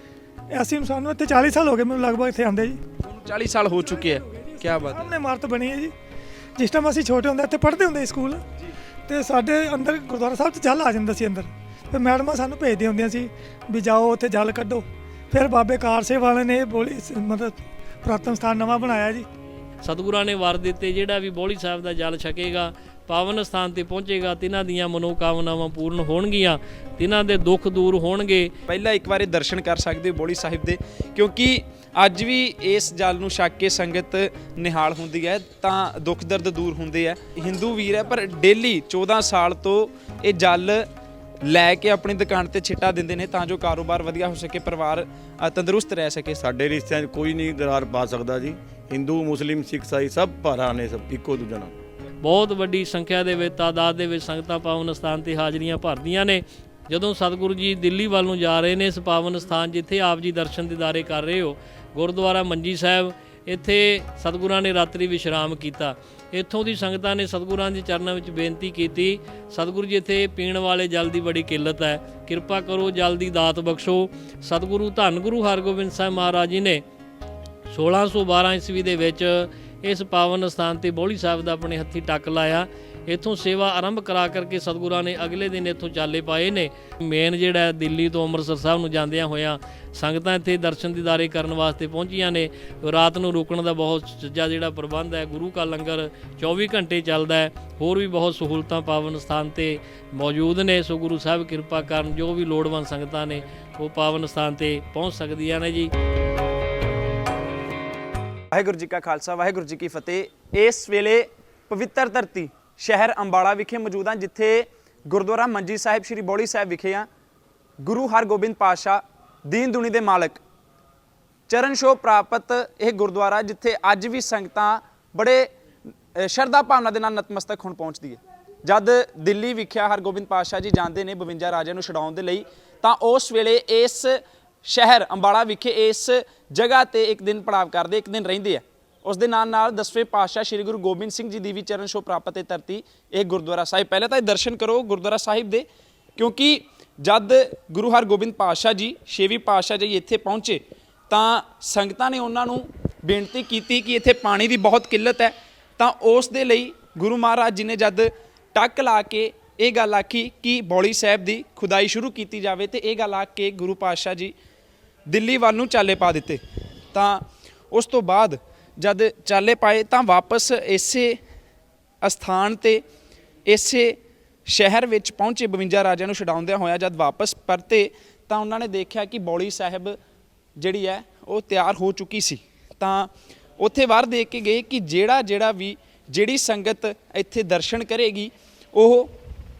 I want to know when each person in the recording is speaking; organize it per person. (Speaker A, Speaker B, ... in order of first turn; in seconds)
Speaker A: 0.5-2.8, 3.8-5.9, 6.6-8.4, 9.1-19.3
Speaker B: 3.0-5.1, 28.7-40.9, 41.4-46.4, 108.5-117.1, 117.8-120.4, 121.5-125.5, 126.1-145.7, 146.2-164.3, 165.1-166.4, 166.9-171.2, 172.0-172.8, 173.4-180.0, 180.6-189.2
Speaker C: 19.8-28.5, 52.2-76.8, 77.7-105.9
Speaker D: 46.4-51.7